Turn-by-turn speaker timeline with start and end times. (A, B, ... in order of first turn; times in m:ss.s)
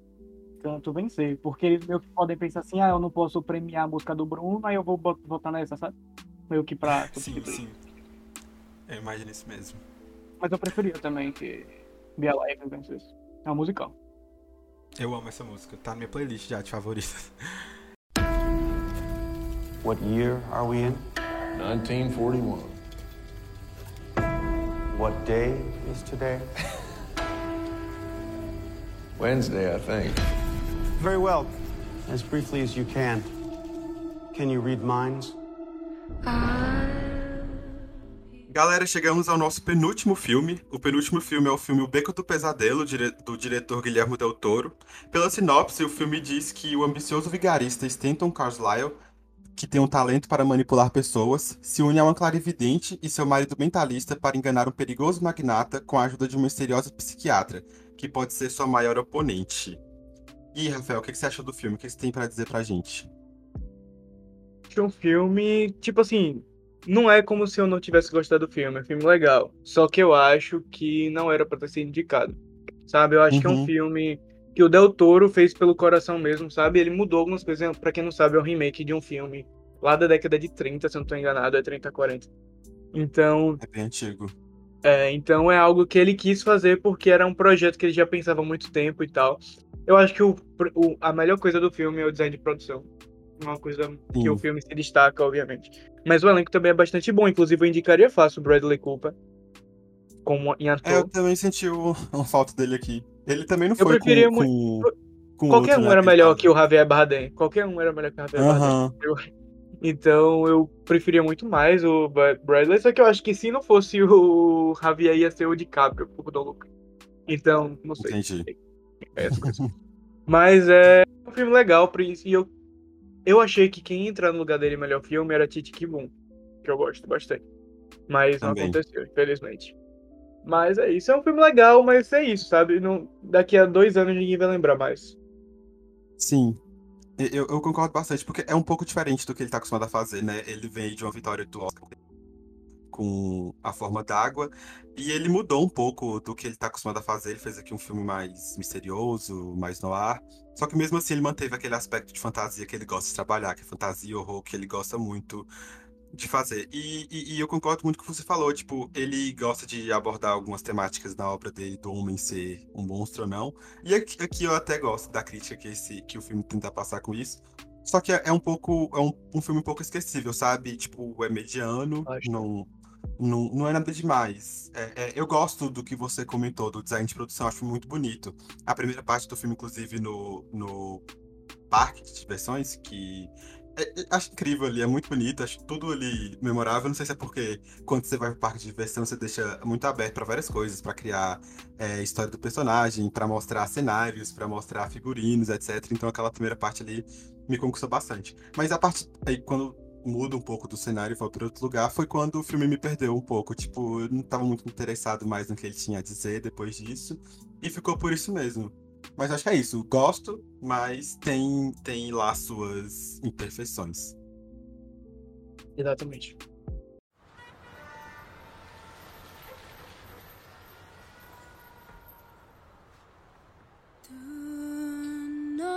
0:00.6-0:05.9 A
0:06.5-0:07.6 A
0:06.9-0:07.8 B
0:08.9-0:09.8 B
0:10.4-0:13.9 A
0:15.0-0:17.3 B
0:19.8-0:21.0 C
0:21.5-0:22.8 D
0:24.9-0:26.4 C
0:29.2-0:30.2 D
0:31.0-0:31.6 C
0:32.1-0:33.3 C
0:34.3-0:35.4 C
0:38.5-0:49.0 B
0:49.6-0:59.8 B
1:00.5-1:03.1 B
1:04.7-1:22.3 A
1:13.3-1:13.7 B
1:22.9-1:23.6 A
1:23.6-1:24.3 B
1:24.8-1:32.9 A
1:33.4-1:39.1 A
1:34.1-1:34.4 B
1:40.2-1:41.1 A
1:40.8-1:46.5 B
1:43.8-1:44.9 A
1:45.5-1:49.2 A
1:48.4-1:48.9 B
1:49.8-1:56.7 A
1:57.3-1:58.6 A
1:58.0-1:58.5 B
1:59.1-1:59.6 A
1:59.3-1:59.7 B
2:00.3-2:02.5 A
2:03.2-2:06.1 A
2:06.6-2:07.4 A
2:08.1-2:09.7 A
2:08.4-2:08.8 B
2:10.4-2:15.1 A
2:16.2-2:16.6 B
2:17.2-2:21.9 B
2:22.9-2:35.5 B
2:36.1-3:01.0 B
2:52.0-2:52.4 A
3:01.7-3:34.1 B
3:35.8-3:36.4 A